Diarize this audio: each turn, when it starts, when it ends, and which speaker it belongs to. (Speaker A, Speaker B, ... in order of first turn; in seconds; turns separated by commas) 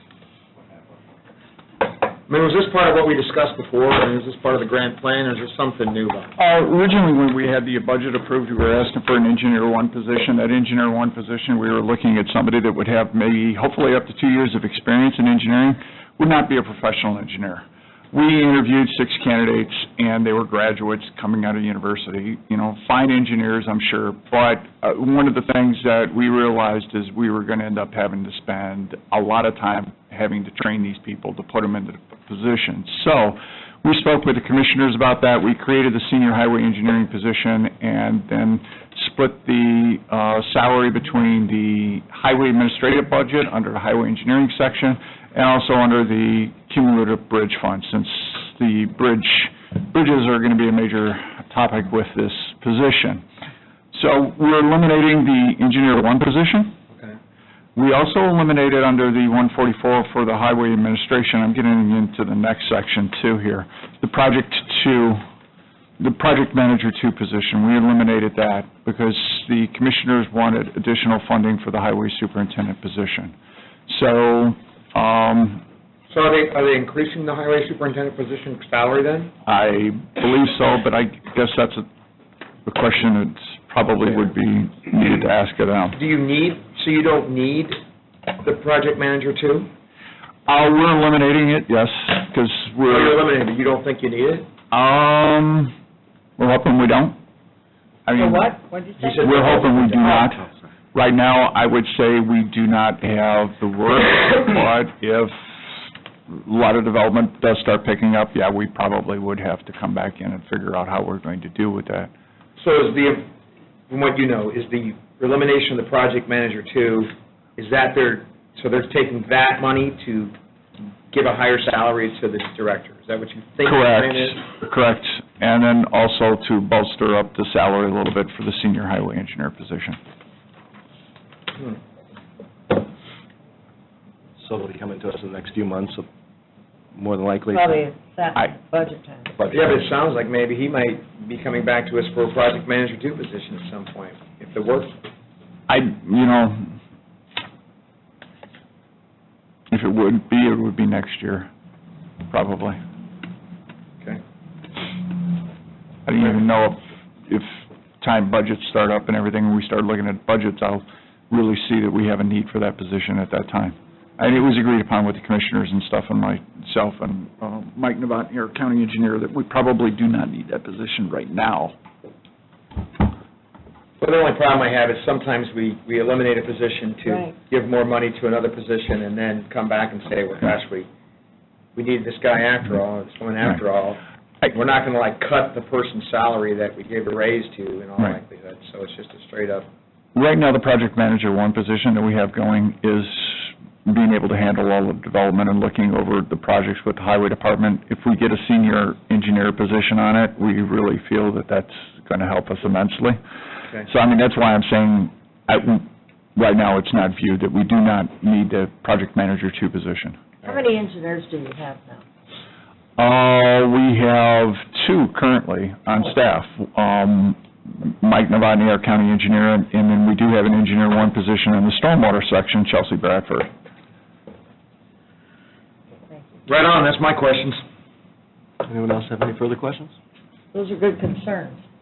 Speaker A: 2.3-6.3, Speaker B: 6.4-53.2, Speaker B: 53.9-56.7, Speaker B: 57.8-65.2, Speaker B: 66.0-73.3, Speaker B: 73.9-75.6, Speaker A: 76.1-79.3, Speaker B: 79.5-81.8, Speaker B: 82.7-86.0, Speaker A: 85.9-87.8, Speaker A: 88.4-89.7, Speaker B: 90.5-93.2, Speaker A: 92.9-94.5, Speaker B: 94.7-95.7, Speaker B: 96.4-97.2, Speaker B: 98.0-98.5, Speaker C: 98.2-100.2, Speaker A: 99.0-100.2, Speaker B: 99.2-112.1, Speaker A: 112.6-113.3, Speaker A: 113.9-120.3, Speaker A: 121.1-124.4, Speaker B: 123.6-130.0, Speaker D: 134.4-136.1, Speaker D: 136.9-137.8, Speaker C: 137.5-139.3, Speaker A: 139.5-145.0, Speaker B: 145.7-146.7, Speaker B: 149.7-151.5, Speaker B: 152.3-152.8, Speaker B: 156.1-171.7, Speaker A: 174.0-180.9, Speaker C: 177.0-177.3, Speaker A: 181.7-189.7, Speaker B: 190.1-203.2, Speaker B: 203.7-210.2, Speaker C: 210.4-212.0, Speaker B: 213.0-223.5, Speaker C: 226.1-226.3, Speaker A: 226.4-227.6, Speaker D: 228.6-229.9, Speaker C: 230.5-231.6